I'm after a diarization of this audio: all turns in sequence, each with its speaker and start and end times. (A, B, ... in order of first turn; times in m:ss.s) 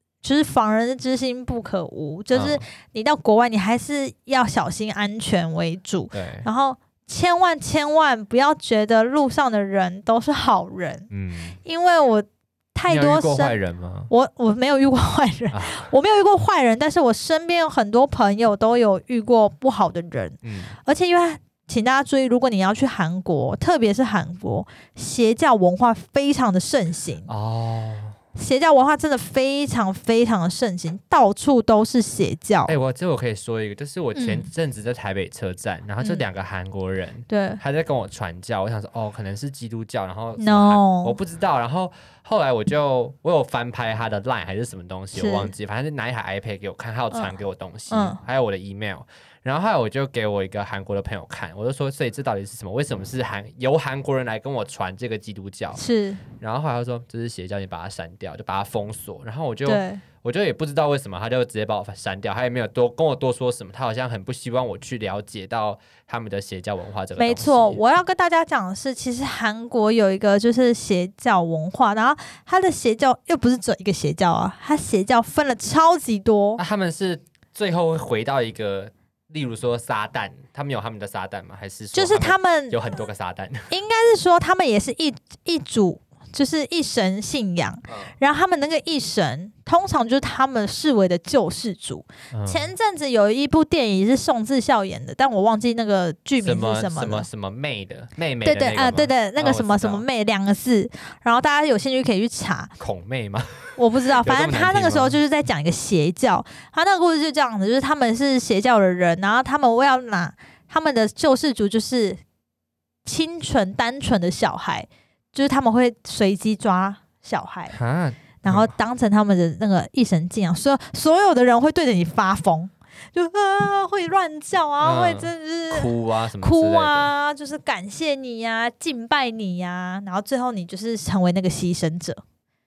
0:00.2-0:11.1 A
0:02.3-0:02.6 B
0:06.1-0:06.5 B
0:11.1-0:11.6 B
0:11.6-0:13.6 A
0:12.9-0:14.1 B
0:14.1-0:27.3 A
0:15.5-0:15.9 B
0:20.4-0:20.8 B
0:27.3-0:28.2 B
0:28.4-0:32.8 A
0:32.7-0:55.8 B
0:34.2-0:34.5 A
0:37.3-0:37.6 A
0:40.4-0:41.2 A
0:45.1-0:45.5 A
0:47.9-0:48.2 A
0:55.8-0:56.2 A
0:56.4-1:07.8 B
0:59.7-1:00.0 A
1:07.2-1:16.6 A
1:16.6-1:23.7 B
1:21.9-1:23.0 A
1:23.7-1:37.3 A
1:27.9-1:28.1 B
1:32.3-1:32.7 B
1:36.4-1:40.0 B
1:38.4-1:42.7 A
1:42.8-1:45.2 B
1:43.8-1:52.2 A
1:53.0-1:57.8 A
1:57.7-1:58.7 B
1:58.4-2:12.2 A
2:04.8-2:07.1 B